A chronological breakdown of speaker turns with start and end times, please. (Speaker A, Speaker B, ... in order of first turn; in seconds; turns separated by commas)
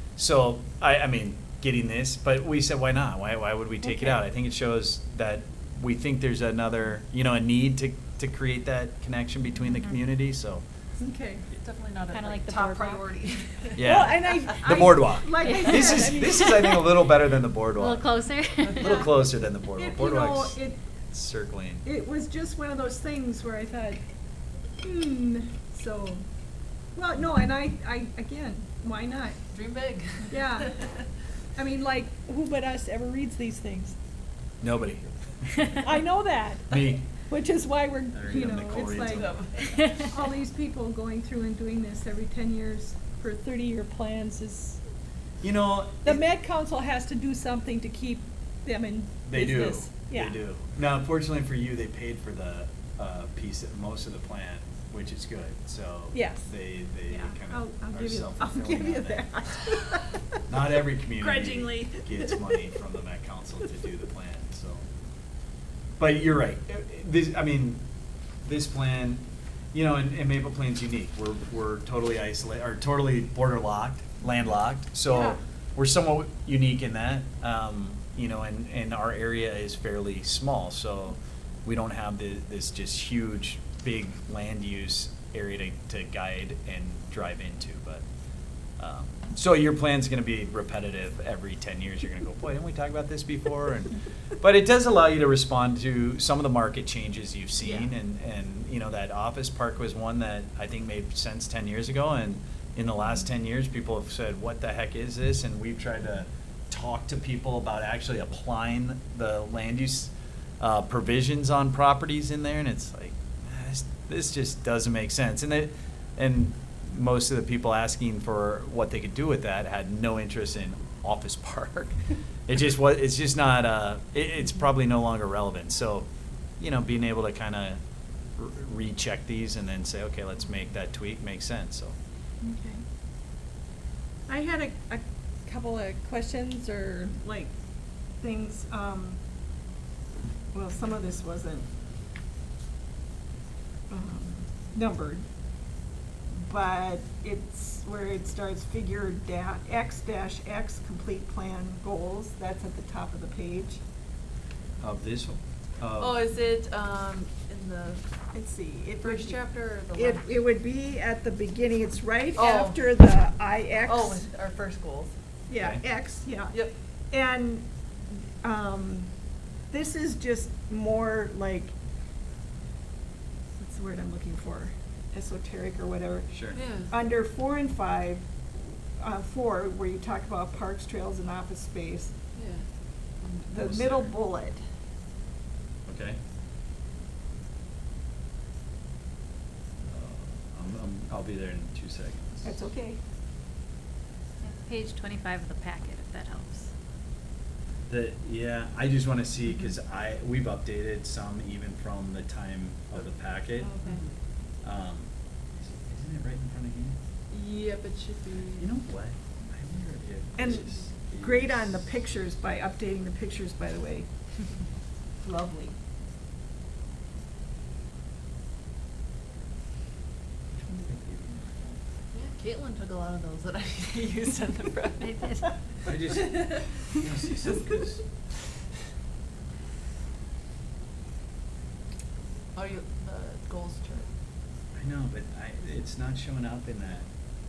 Speaker A: 0.2-10.6, Speaker B: 3.8-4.2, Speaker B: 11.0-11.4, Speaker C: 11.5-13.8, Speaker D: 12.1-13.3, Speaker A: 13.8-18.1, Speaker B: 13.8-16.8, Speaker D: 15.4-16.3, Speaker D: 17.8-19.1, Speaker A: 18.8-20.6, Speaker B: 19.8-20.8, Speaker A: 21.1-21.9, Speaker B: 21.9-24.0, Speaker B: 24.8-26.2, Speaker B: 26.9-29.4, Speaker C: 29.5-30.8, Speaker B: 30.3-30.8, Speaker B: 31.6-34.0, Speaker A: 34.6-35.9, Speaker B: 35.8-39.3, Speaker A: 36.7-37.1, Speaker A: 38.1-39.4, Speaker C: 39.1-39.9, Speaker B: 40.1-44.8, Speaker A: 45.4-46.2, Speaker B: 46.0-50.4, Speaker A: 49.2-59.3, Speaker B: 56.1-56.4, Speaker B: 57.1-60.2, Speaker A: 60.5-64.8, Speaker B: 61.2-62.7, Speaker A: 66.0-67.8, Speaker A: 68.4-88.0, Speaker A: 88.8-126.1, Speaker A: 126.6-127.8, Speaker A: 128.4-132.0, Speaker B: 132.4-132.8, Speaker B: 134.3-137.5, Speaker B: 138.2-139.2, Speaker B: 140.5-141.7, Speaker B: 143.9-145.2, Speaker B: 146.4-153.8, Speaker A: 154.8-156.3, Speaker C: 156.0-158.0, Speaker B: 158.3-159.4, Speaker C: 159.0-160.3, Speaker B: 159.9-164.2, Speaker C: 162.4-162.8, Speaker C: 163.9-165.1, Speaker B: 165.5-166.5, Speaker A: 165.5-165.8, Speaker B: 167.1-167.7, Speaker B: 168.4-169.1, Speaker B: 169.7-171.7, Speaker B: 173.6-176.3, Speaker A: 176.3-176.6, Speaker C: 176.6-176.9, Speaker B: 176.9-182.1, Speaker C: 182.3-182.7, Speaker B: 183.5-184.6, Speaker A: 183.6-184.1, Speaker A: 185.9-186.2, Speaker A: 189.8-192.5, Speaker B: 192.4-193.0, Speaker D: 194.4-196.7, Speaker A: 197.9-203.8, Speaker B: 203.6-204.0, Speaker C: 203.8-204.1, Speaker A: 204.6-207.0, Speaker C: 207.3-208.7, Speaker A: 208.6-211.7, Speaker B: 210.4-214.1, Speaker B: 215.2-215.7, Speaker A: 220.5-221.4, Speaker C: 222.1-225.3, Speaker D: 225.0-225.5, Speaker A: 225.8-228.0, Speaker C: 232.6-234.1, Speaker A: 234.8-237.1